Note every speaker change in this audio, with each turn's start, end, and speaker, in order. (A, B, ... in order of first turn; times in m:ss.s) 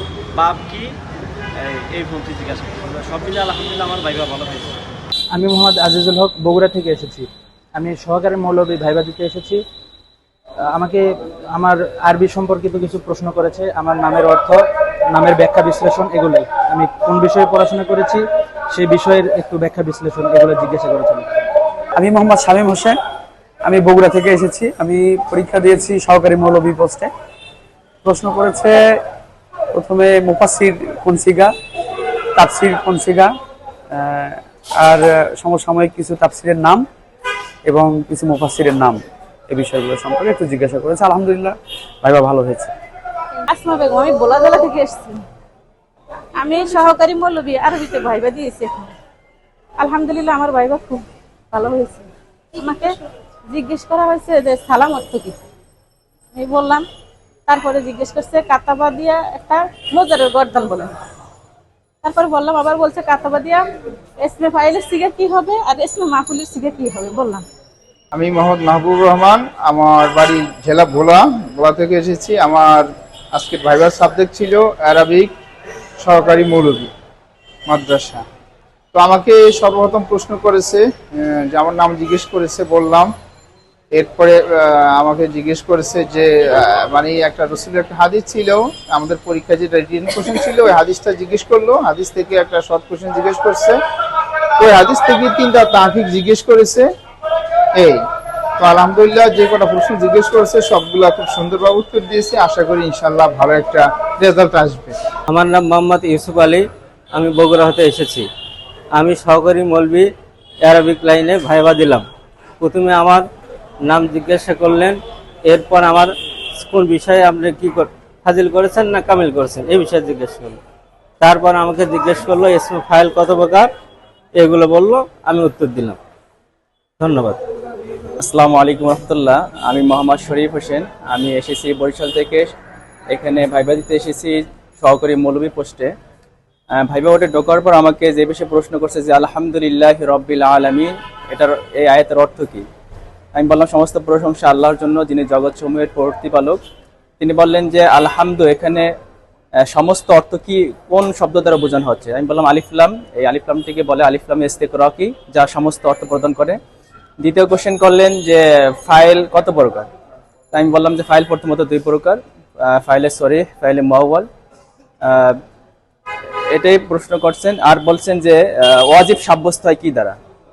0:00.3-0:01.0 A
0:01.5-0:04.8 A
0:05.3-0:09.6 B
0:10.6-0:21.4 B
0:22.0-0:23.0 C
0:23.6-0:27.1 C
0:28.0-0:28.8 C
0:29.7-0:31.5 C
0:32.4-0:33.3 C
0:33.9-0:36.8 C
0:37.6-0:42.7 C
0:43.4-0:45.2 D
0:46.4-0:48.9 D
0:49.8-0:52.9 D
0:53.5-0:55.4 D
0:56.3-0:56.8 D
0:57.5-1:00.9 D
1:02.0-1:03.6 D
1:04.2-1:07.4 D
1:08.1-1:15.3 E
1:16.0-1:16.9 E
1:17.7-1:18.2 E
1:18.9-1:23.1 E
1:23.9-1:33.8 E
1:34.6-1:36.9 E
1:38.6-1:45.0 E
1:45.3-1:48.3 F
1:48.9-1:50.1 F
1:50.6-1:52.1 F
1:52.6-1:53.3 F
1:53.8-2:00.6 F
2:01.2-2:03.7 F
2:04.3-2:06.0 F
2:07.0-2:07.4 F
2:08.2-2:12.5 G
2:13.1-2:15.9 G
2:16.7-2:22.6 G
2:23.3-2:26.6 G
2:27.2-2:28.9 G
2:29.7-2:36.6 G
2:37.2-2:39.9 G
2:40.5-2:44.3 G
2:45.0-2:45.4 G
2:46.5-2:50.2 G